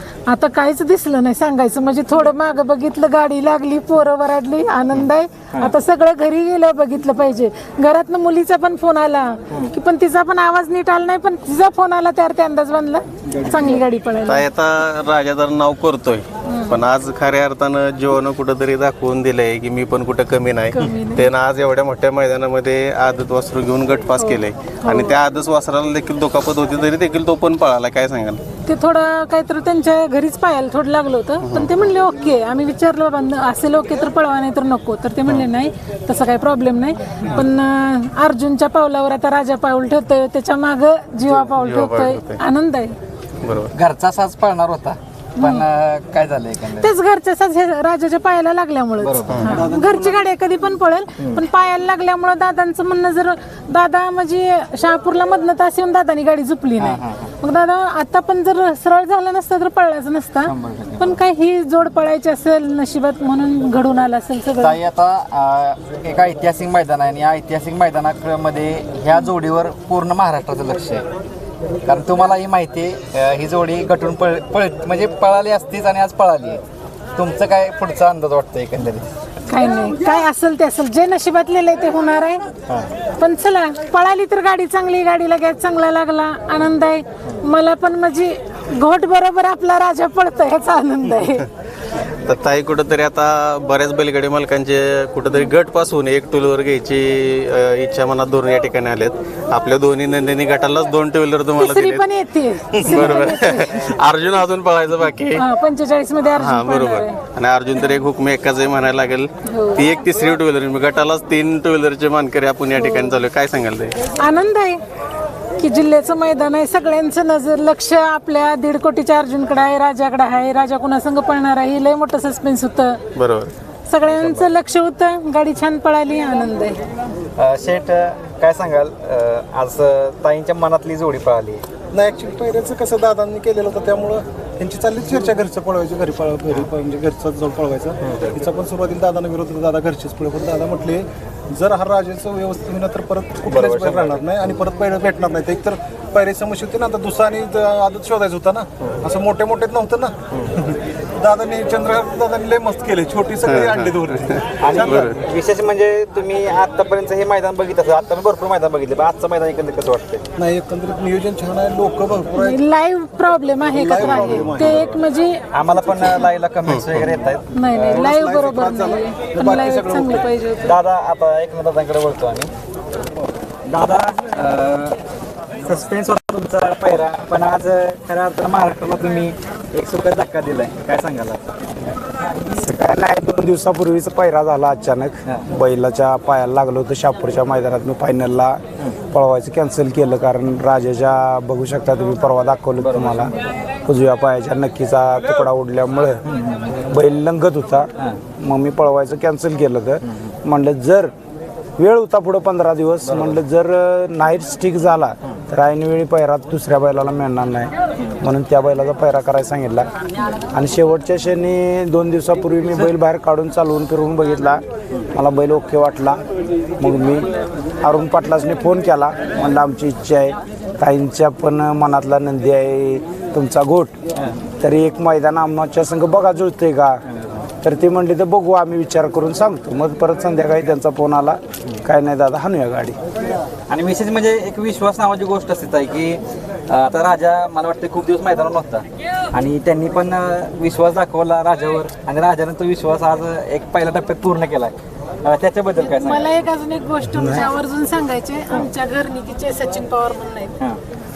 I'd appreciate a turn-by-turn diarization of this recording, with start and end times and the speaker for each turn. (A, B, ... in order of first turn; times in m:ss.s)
0:00.3-0:14.5 A
0:13.3-0:13.8 B
0:14.3-0:28.4 C
0:16.5-0:16.8 A
0:20.7-0:21.3 A
0:24.2-0:25.2 A
0:28.7-0:42.9 A
0:31.4-0:31.7 C
0:41.3-0:42.4 C
0:43.4-0:43.7 C
0:43.7-0:46.9 B
0:45.4-0:45.6 A
0:46.8-1:04.8 A
0:49.0-0:49.4 B
0:49.3-0:49.6 C
0:49.5-0:50.2 D
0:51.2-0:51.4 B
0:56.8-0:57.3 B
1:00.5-1:01.2 B
1:04.6-1:11.1 B
1:11.8-1:16.6 B
1:17.2-1:19.1 B
1:19.5-1:22.5 A
1:23.2-1:31.5 A
1:32.2-1:42.0 C
1:41.6-1:43.8 A
1:42.7-1:45.4 C
1:45.4-1:47.2 A
1:46.4-1:54.0 C
1:49.5-1:49.9 A
1:52.8-1:53.2 A
1:54.2-1:54.8 A
1:55.6-2:03.0 A
2:03.2-2:03.5 C
2:03.9-2:06.8 A
2:04.1-2:04.5 B
2:07.4-2:11.6 B
2:11.9-2:35.2 D
2:18.1-2:18.3 C
2:23.5-2:24.6 C
2:33.4-2:35.2 C
2:34.6-2:40.2 B
2:40.4-2:42.6 D
2:42.4-2:45.4 A
2:43.7-2:45.0 D
2:45.5-2:47.5 B
2:46.7-2:47.1 C
2:47.5-2:50.7 A
2:47.7-2:50.2 D
2:50.6-2:52.5 B
2:53.7-2:55.0 B
2:55.6-3:01.6 B
3:02.4-3:08.6 E
3:09.1-3:13.3 E
3:12.8-3:13.4 B
3:13.8-3:16.2 E
3:16.2-3:16.8 B
3:16.9-3:21.1 E
3:20.0-3:20.3 B
3:21.8-3:29.9 E
3:23.0-3:23.4 B
3:30.5-3:36.2 E
3:36.8-3:37.3 E
3:37.8-3:43.9 E
3:44.6-3:47.0 E
3:47.1-3:47.4 B
3:47.6-3:53.0 E
3:53.7-4:06.4 B
4:05.8-4:10.6 A
4:07.1-4:07.4 E